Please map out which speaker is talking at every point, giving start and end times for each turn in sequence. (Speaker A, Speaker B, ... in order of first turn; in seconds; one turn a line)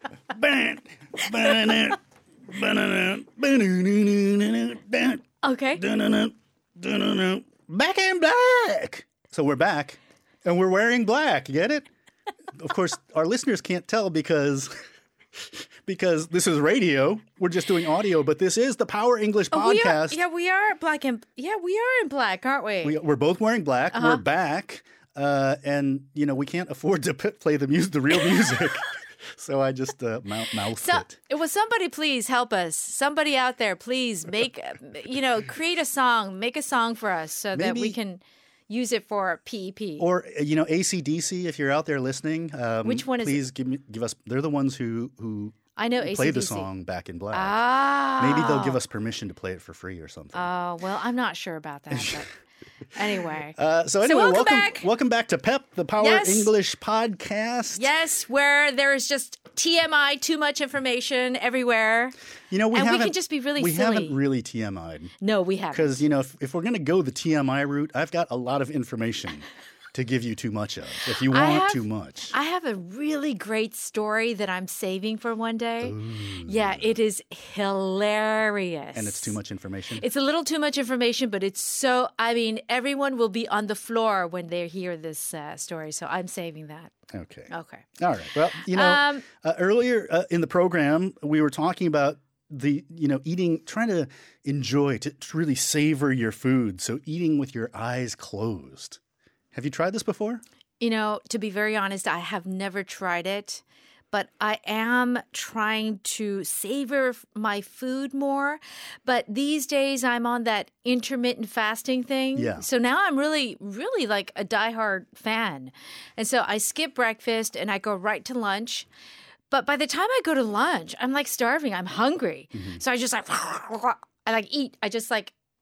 Speaker A: 0.3-5.2
Speaker B: 1.5-1.7
Speaker B: 5.4-5.8
Speaker A: 5.8-11.8
Speaker A: 12.6-14.7
Speaker A: 15.8-20.2
Speaker B: 19.5-23.0
Speaker A: 22.8-31.1
Speaker B: 23.9-24.2
Speaker B: 30.7-40.0
Speaker A: 37.5-38.0
Speaker A: 40.0-50.5
Speaker B: 42.8-43.4
Speaker B: 45.7-46.7
Speaker B: 47.3-48.8
Speaker B: 50.3-52.3
Speaker B: 52.9-54.9
Speaker A: 53.5-57.9
Speaker B: 56.0-56.5
Speaker B: 57.7-62.1
Speaker A: 62.5-65.1
Speaker B: 62.7-64.2
Speaker B: 65.2-66.0
Speaker A: 65.7-72.3
Speaker B: 71.2-79.4
Speaker A: 75.8-76.9
Speaker A: 78.9-80.0
Speaker B: 80.0-86.9
Speaker A: 87.1-99.0
Speaker B: 87.5-87.8
Speaker B: 88.6-89.2
Speaker A: 99.5-100.4
Speaker B: 100.8-118.9
Speaker A: 112.3-112.7
Speaker B: 119.5-125.3
Speaker A: 122.5-122.8